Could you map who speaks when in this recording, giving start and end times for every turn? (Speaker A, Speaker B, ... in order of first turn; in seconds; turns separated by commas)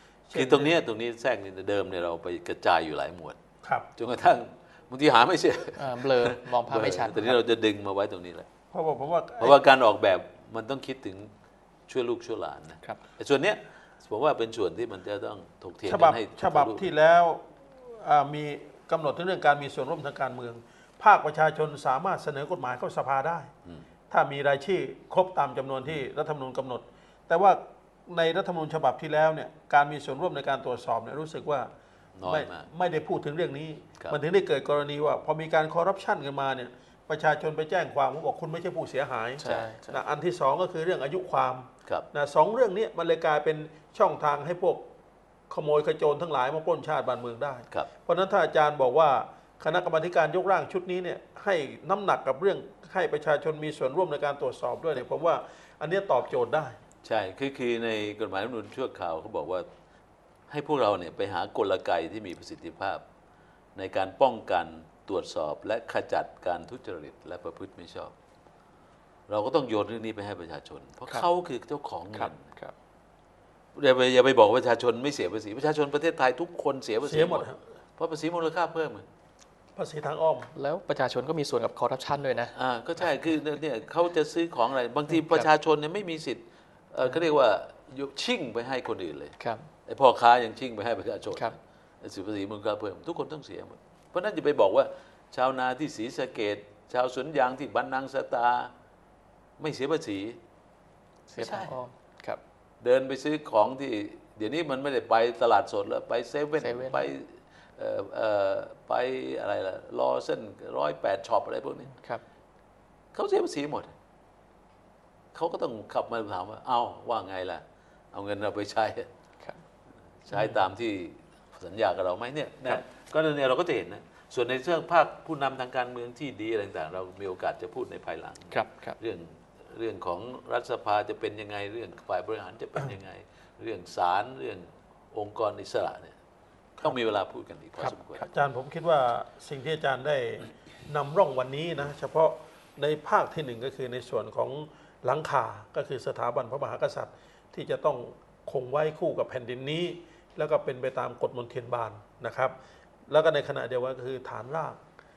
Speaker A: 0.3-0.8, Speaker B: 0.3-3.4, Speaker A: 3.6-3.9, Speaker B: 4.0-8.5, Speaker C: 5.8-7.4, Speaker A: 8.7-9.6, Speaker B: 9.4-11.3, Speaker B: 11.9-16.9, Speaker A: 15.8-23.5, Speaker A: 24.1-31.7, Speaker B: 32.2-32.7, Speaker A: 32.2-44.9, Speaker C: 39.4-40.0, Speaker B: 39.4-39.7, Speaker A: 45.5-56.8, Speaker B: 57.0-59.7, Speaker B: 60.5-63.0, Speaker B: 63.8-68.1, Speaker B: 69.3-72.5, Speaker C: 72.1-72.7, Speaker B: 73.8-79.1, Speaker A: 77.0-77.6, Speaker A: 79.8-80.5, Speaker C: 80.5-82.5, Speaker B: 82.5-89.4, Speaker C: 85.1-85.5, Speaker C: 89.4-89.7, Speaker B: 89.9-98.7, Speaker B: 99.6-100.4, Speaker C: 101.3-102.4, Speaker B: 101.4-101.8, Speaker B: 102.8-111.9, Speaker C: 106.6-107.1, Speaker C: 111.9-112.2, Speaker B: 113.1-113.9, Speaker B: 115.3-119.1, Speaker B: 120.2-136.2, Speaker C: 120.3-120.6, Speaker C: 128.5-129.0, Speaker B: 136.8-138.3, Speaker A: 138.3-152.5, Speaker A: 153.1-154.8